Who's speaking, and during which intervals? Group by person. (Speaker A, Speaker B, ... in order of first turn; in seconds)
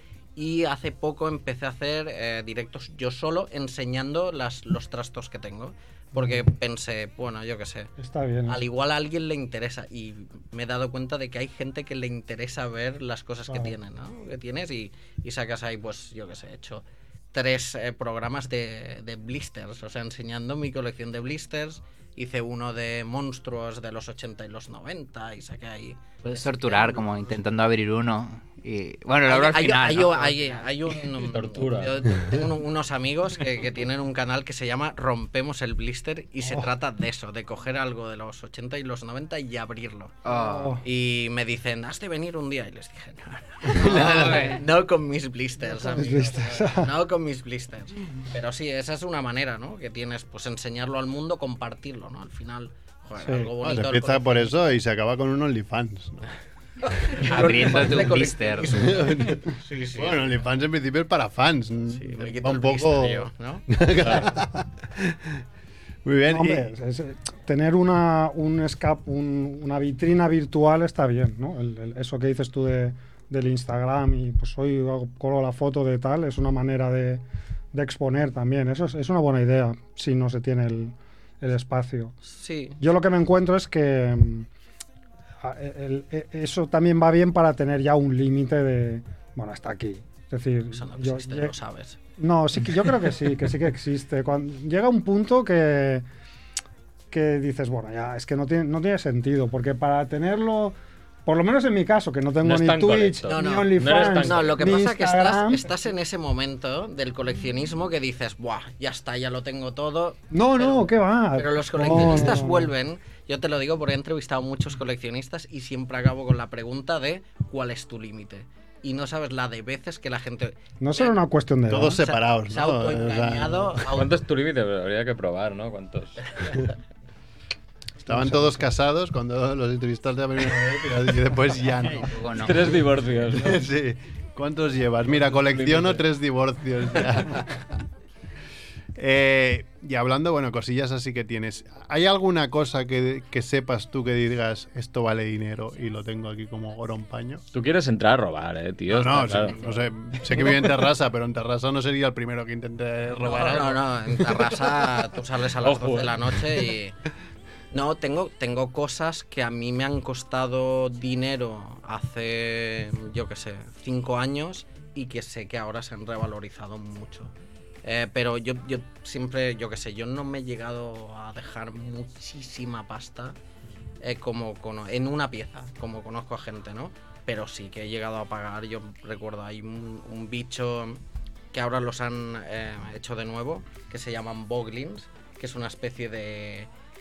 Speaker A: 0.4-7.9, 8.5-27.4, 29.3-54.8, 57.0-60.3, 61.9-63.7, 82.3-82.8, 90.7-92.0, 103.3-121.2, 122.0-124.2, 153.2-156.9, 157.7-167.3, 167.8-173.4, 174.0-181.0, 181.5-186.7
Speaker B: 6.2-6.5, 8.0-8.6, 40.3-40.8, 45.8-46.9, 53.2-53.5, 66.3-82.2, 82.8-84.5, 85.4-91.5, 92.2-96.0, 97.1-105.6, 110.3-112.7, 120.8-122.0, 128.1-128.7
Speaker C: 26.2-30.9, 40.3-40.8, 43.8-44.6, 57.1-58.9, 131.9-132.8
Speaker D: 31.2-32.3, 64.0-64.3, 102.4-104.8, 124.0-126.2, 132.4-133.6, 135.3-136.0, 147.5-149.6, 155.6-156.3
Speaker E: 43.8-44.2, 53.6-56.3, 58.7-65.4, 66.0-66.7, 121.7-123.9, 128.1-132.2, 133.3-137.5, 139.0-147.4, 148.9-154.7